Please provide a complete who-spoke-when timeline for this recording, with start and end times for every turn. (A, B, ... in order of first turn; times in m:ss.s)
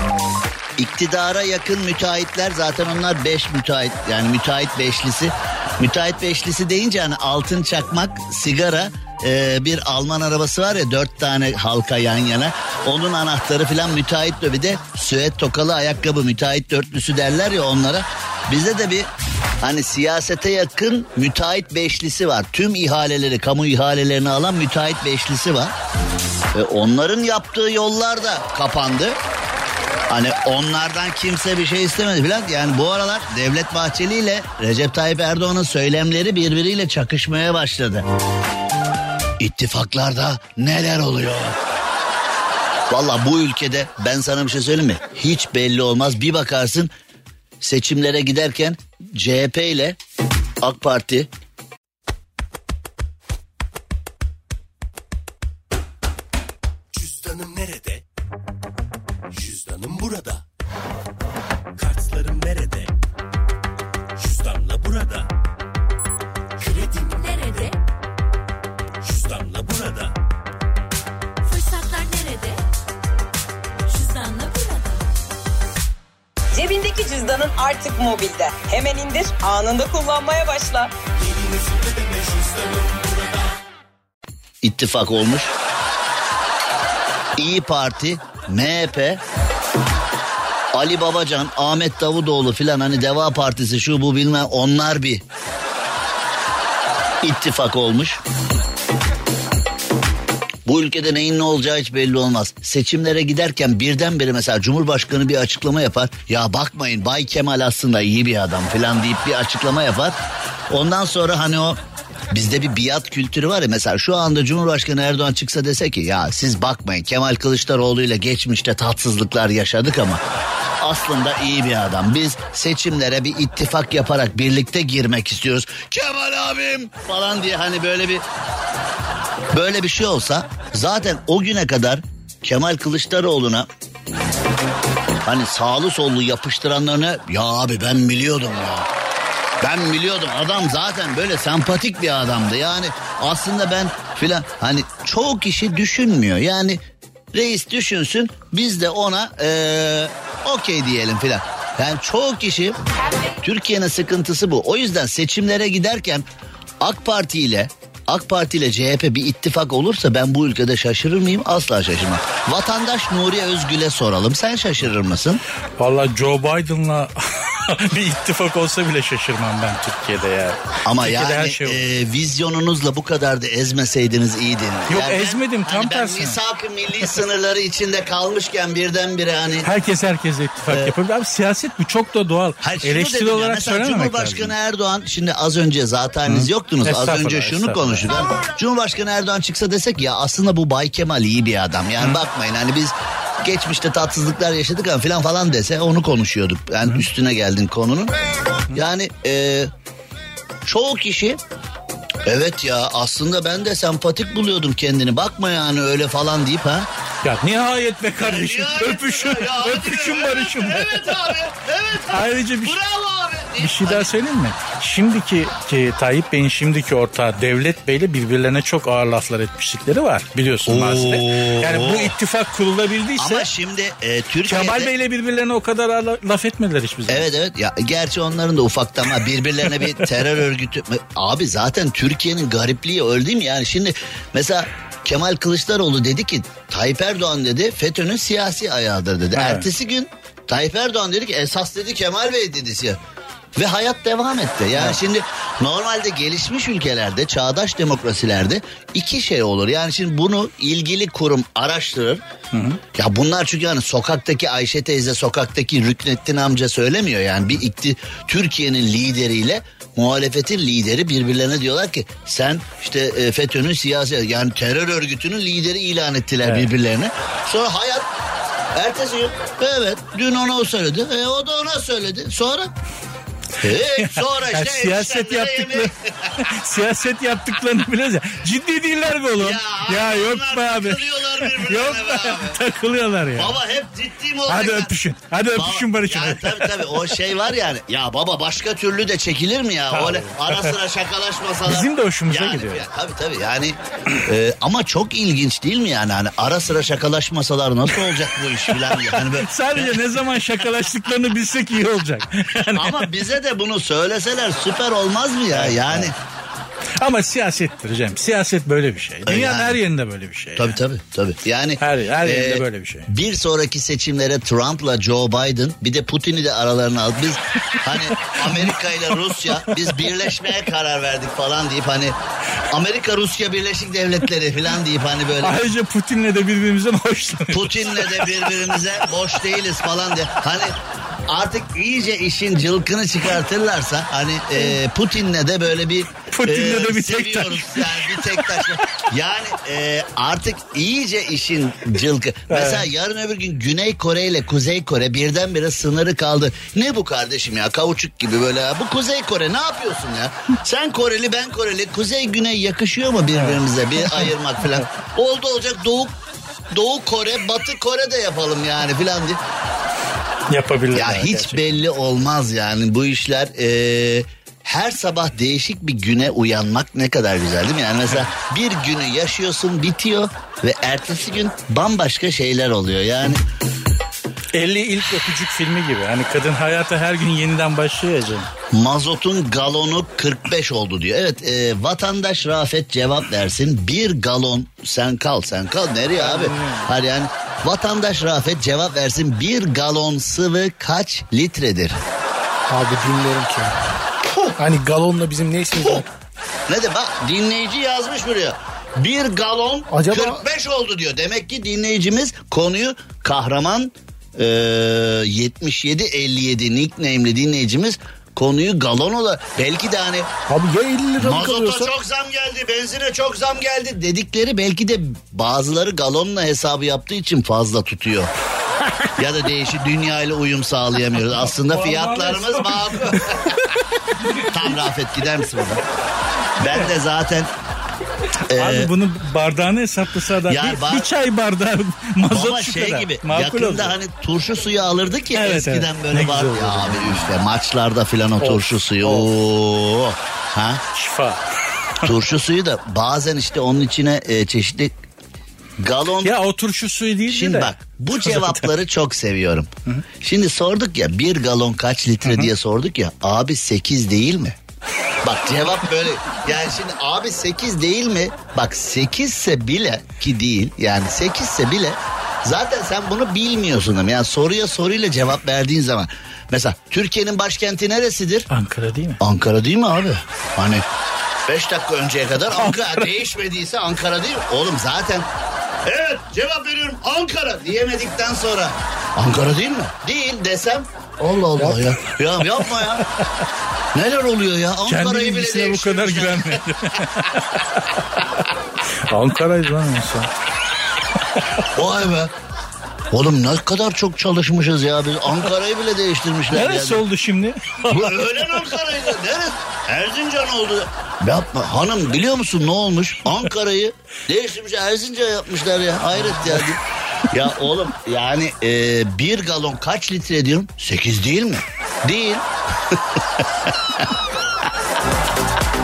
0:00.8-0:19.1 A
0:19.6-0:25.7 A
0:26.5-0:29.2 A
0:30.1-0:38.1 A
0:39.4-0:41.6 A
0:42.9-0:46.9 A
0:47.6-0:50.0 A
0:50.6-0:51.3 A
0:56.9-0:58.0 B
0:59.3-1:00.4 B
1:01.8-1:02.9 B
1:04.2-1:05.3 B
1:06.6-1:07.8 B
1:09.0-1:10.1 B
1:11.4-1:12.6 B
1:13.9-1:15.1 B
1:16.5-1:20.9 C
1:21.2-1:23.3 B
1:24.6-1:25.5 A
1:27.4-1:29.2 A
1:30.7-1:35.2 A
1:37.2-1:38.2 A
1:40.7-1:50.2 A
1:50.7-1:51.8 A
1:52.3-2:00.2 A
2:00.8-2:08.2 A
2:09.5-2:13.7 A
2:15.2-2:18.9 A
2:19.6-2:26.8 A
2:27.3-2:32.8 A
2:33.4-2:36.3 A
2:36.8-2:45.4 A
2:45.8-2:51.9 D
2:50.8-2:59.7 A
2:54.9-2:56.4 D
2:59.6-3:04.5 D
3:00.7-3:00.9 A
3:02.6-3:18.2 A
3:06.3-3:08.1 D
3:18.7-3:19.7 A
3:20.6-3:21.4 A
3:22.3-3:26.9 A
3:27.2-3:31.3 D
3:28.2-3:34.1 A
3:32.1-3:32.8 D
3:33.6-3:43.5 D
3:40.7-3:42.1 A
3:43.2-3:44.9 A
3:44.5-3:47.3 D
3:47.1-4:03.0 A
3:59.4-3:59.7 D
4:03.6-4:12.2 A
4:12.5-4:12.8 D
4:12.9-4:28.1 A
4:28.7-4:32.7 A
4:33.6-4:36.4 A
4:33.9-4:43.6 D
4:39.4-4:42.6 A
4:43.4-4:44.9 A
4:44.5-4:47.2 D
4:45.5-5:00.1 A
4:49.9-4:50.8 D
4:51.6-4:52.9 D
4:58.7-5:03.1 D
5:02.7-5:06.2 A
5:05.5-5:06.1 D
5:07.0-5:10.8 D
5:09.3-5:09.8 A
5:10.6-5:22.2 A
5:11.8-5:13.1 D
5:17.8-5:20.1 D
5:22.7-5:25.6 A
5:25.4-5:28.5 D
5:27.5-5:30.8 A
5:31.3-5:56.2 A
5:36.3-5:38.8 D
5:42.5-5:42.9 D
5:53.3-5:54.3 D
5:56.7-5:59.4 A
6:00.5-6:01.6 D
6:00.9-6:13.4 A
6:14.5-6:18.5 D
6:18.7-6:32.0 A
6:26.2-6:26.9 D
6:32.7-6:33.7 E
6:34.6-6:36.1 E
6:35.7-6:36.0 A
6:36.7-6:50.3 A
6:39.9-6:40.4 E
6:50.5-6:51.9 E
6:51.2-6:58.3 A
6:59.2-7:03.6 A
7:01.6-7:04.5 D
7:04.4-7:05.8 A
7:06.6-7:07.5 A
7:08.5-7:08.9 A
7:08.5-7:14.0 D
7:10.4-7:11.1 A
7:12.3-7:20.8 A
7:15.3-7:17.3 D
7:18.4-7:19.3 D
7:20.9-7:21.4 D
7:22.0-7:25.0 A
7:25.8-7:26.4 A
7:26.2-7:28.7 D
7:27.3-7:29.7 A
7:30.2-7:34.6 A
7:32.2-7:32.5 D
7:35.2-7:48.5 A
7:48.5-7:49.2 D
7:49.2-7:50.8 A
7:51.5-7:55.3 A
7:52.5-7:53.1 D
7:55.8-8:03.0 A
8:01.6-8:03.0 D
8:03.9-8:06.7 A
8:04.9-8:08.5 D
8:09.0-8:10.3 D
8:11.7-8:12.3 A
8:13.1-8:17.0 A
8:16.5-8:18.7 D
8:17.9-8:34.0 A
8:26.3-8:26.6 D